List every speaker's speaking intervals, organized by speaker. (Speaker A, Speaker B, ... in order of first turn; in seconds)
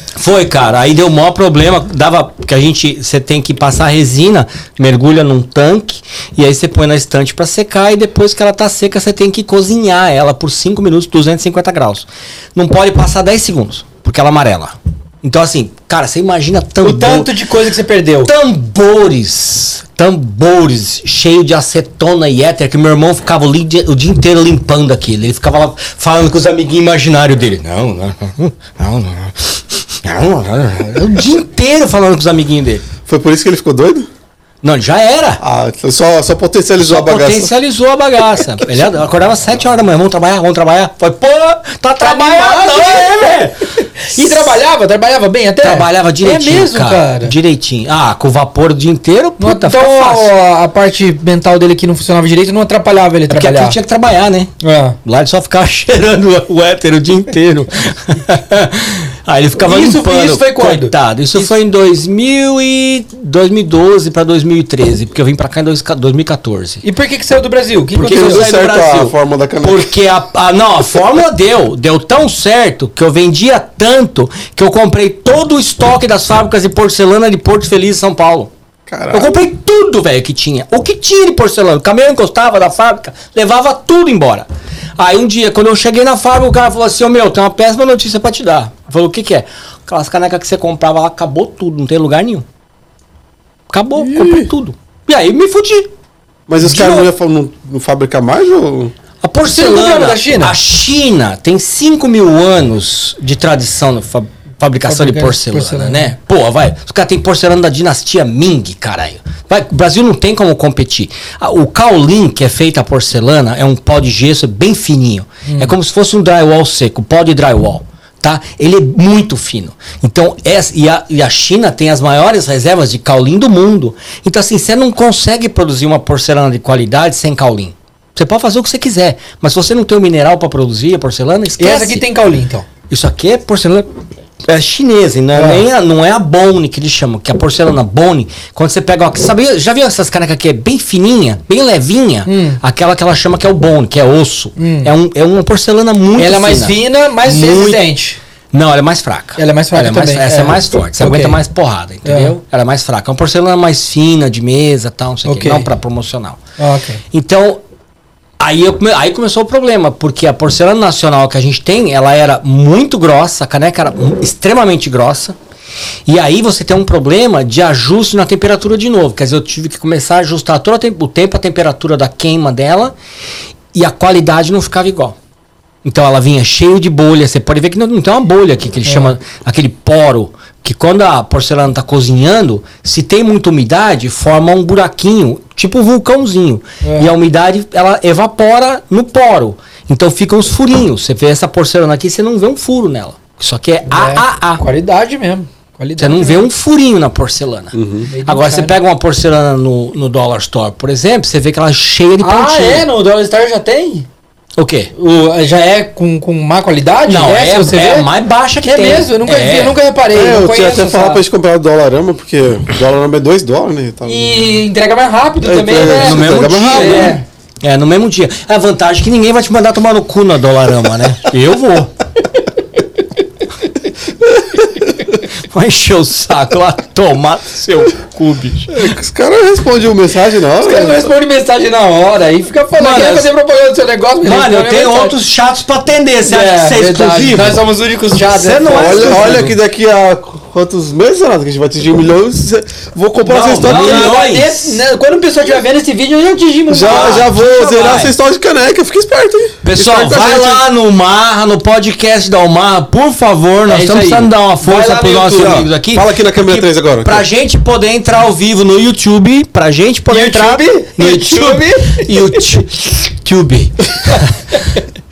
Speaker A: 0.1-17.3, 18.2-32.9, 34.6-35.4, 36.8-44.5, 45.6-50.3, 53.3-54.5, 55.0-66.8, 67.9-78.5, 79.1-84.5, 85.0-92.4, 93.7-95.9, 96.7-97.0, 99.2-132.0, 132.9-133.9, 134.4-147.9, 148.5-156.4, 157.1-157.6, 158.4-165.3, 166.1-172.9, 173.7-175.2, 175.8-194.6, 196.0-202.8, 204.6-204.9, 207.1-209.8, 215.8-221.9, 225.5-228.8, 232.8-233.3, 234.2-237.6, 238.3-239.5, 243.3-244.8, 246.8-248.1, 249.6-264.6
Speaker B: 16.8-18.3, 42.0-43.4, 44.0-47.3, 49.4-53.8, 54.6-55.0, 59.5-61.5, 66.8-68.5, 99.5-100.5, 104.8-106.1, 115.5-115.7, 131.6-132.7, 142.2-142.6, 144.6-144.9, 146.2-148.2, 149.4-151.4, 152.0-152.3, 155.2-155.7, 156.6-157.0, 178.8-179.1, 186.8-187.1, 193.9-196.5, 198.1-198.7, 202.2-204.1, 204.9-208.1, 208.6-211.2, 214.1-217.2, 230.6-235.1, 236.2-239.5, 243.3-247.3, 253.7-255.7, 260.1-262.4
Speaker C: 33.1-34.1, 35.4-37.5, 68.0-69.9, 78.9-79.4, 94.1-94.5, 96.5-98.9, 135.3-135.6, 197.7-198.1, 210.1-214.6, 215.4-217.2, 228.7-231.1, 238.7-244.2, 246.7-250.6, 255.3-257.2